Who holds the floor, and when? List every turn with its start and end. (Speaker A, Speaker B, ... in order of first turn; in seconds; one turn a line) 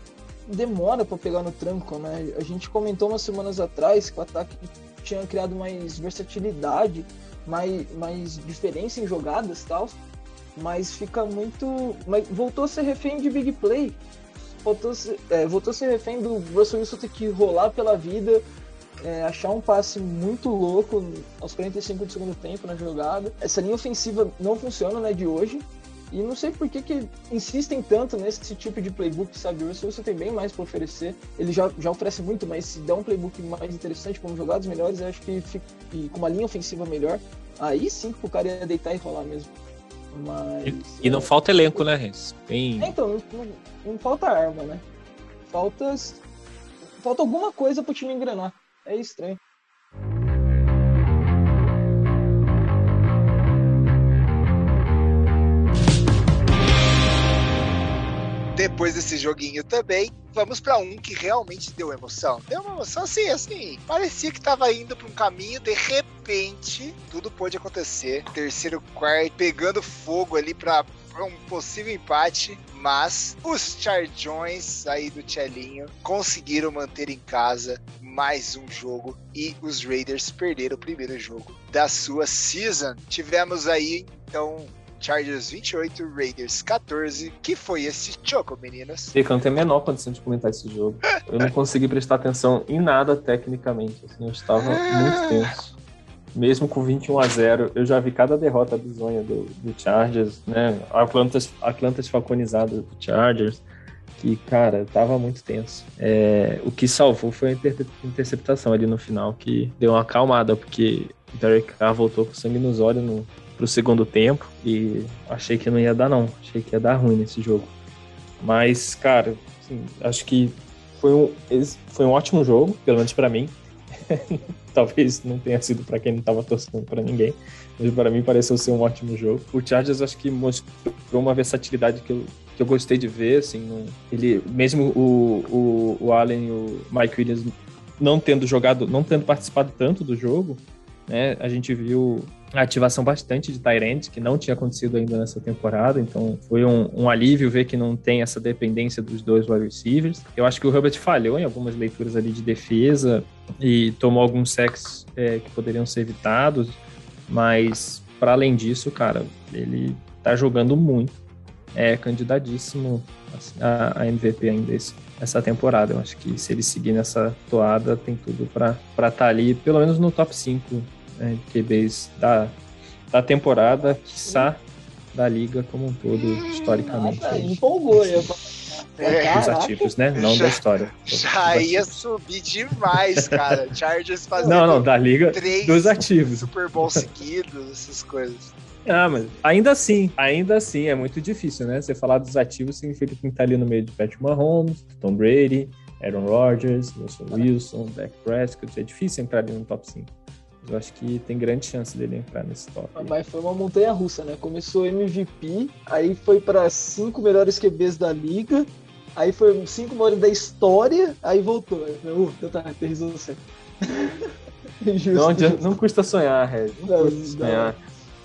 Speaker A: 0.5-10.0
Speaker A: 10.6-14.0
Speaker A: 14.5-18.4
Speaker A: 19.0-39.5
Speaker A: 40.1-41.8
Speaker B: 40.6-43.0
Speaker A: 42.8-44.8
Speaker A: 45.5-46.2
Speaker A: 47.0-49.4
Speaker C: 58.5-89.1
Speaker B: 89.1-95.8
Speaker C: 94.6-95.4
Speaker B: 96.3-103.6
Speaker B: 104.2-117.7
Speaker B: 118.4-161.2
Speaker B: 161.7-172.6
Speaker B: 173.1-174.6
Speaker A: 174.2-174.5
Speaker B: 175.1-177.6
Speaker C: 176.2-176.9
Speaker A: 176.9-178.4
Speaker A: 179.0-179.9
Speaker C: 179.0-179.6
Speaker B: 179.3-181.9
Speaker C: 180.2-188.5
Speaker B: 183.2-183.6
Speaker A: 184.4-184.7
Speaker B: 184.4-187.0
Speaker B: 188.8-200.1
Speaker B: 200.6-203.1
Speaker A: 202.9-214.3
Speaker A: 214.8-215.7
Speaker B: 215.1-217.8
Speaker A: 216.8-217.8